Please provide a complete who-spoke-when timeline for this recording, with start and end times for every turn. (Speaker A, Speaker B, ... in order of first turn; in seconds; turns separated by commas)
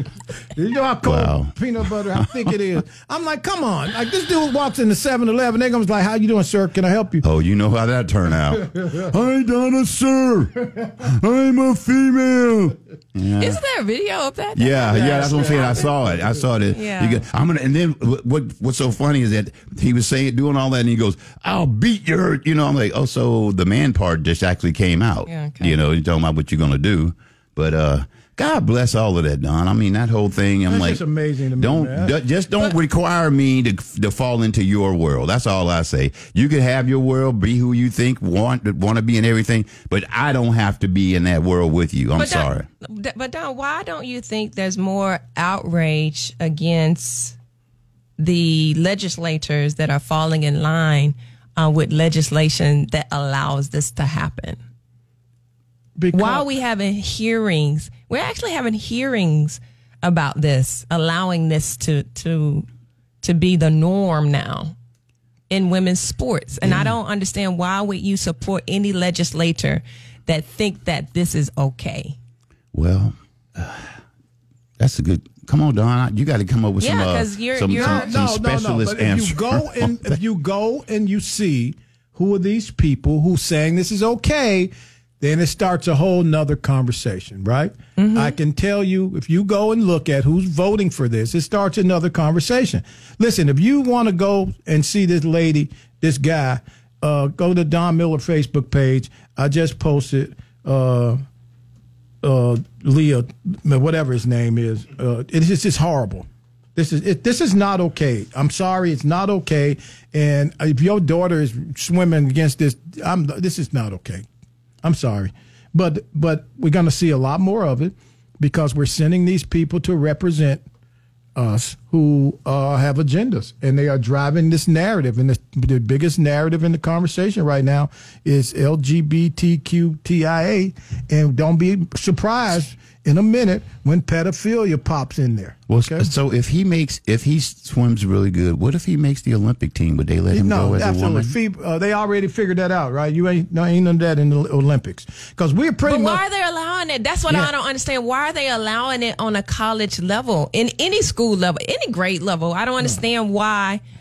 Speaker A: 0.5-7.2, Speaker B: 1.0-1.6, Speaker B: 7.2-13.6, Speaker C: 13.4-15.9, Speaker B: 14.6-31.0, Speaker A: 14.9-16.4, Speaker C: 16.7-17.2, Speaker C: 25.2-25.7, Speaker A: 30.7-32.2, Speaker B: 31.6-42.6, Speaker C: 42.2-47.4, Speaker C: 48.2-54.6, Speaker A: 56.0-56.5, Speaker C: 56.1-62.6, Speaker C: 63.2-64.7, Speaker C: 65.5-72.1, Speaker B: 66.6-66.9, Speaker B: 72.7-73.9, Speaker B: 74.8-80.0, Speaker C: 76.8-78.2, Speaker A: 77.7-101.2, Speaker C: 88.0-88.3, Speaker A: 102.2-114.2, Speaker A: 114.8-120.6, Speaker A: 121.3-136.1, Speaker B: 135.7-141.3, Speaker A: 140.3-146.2, Speaker C: 145.8-153.8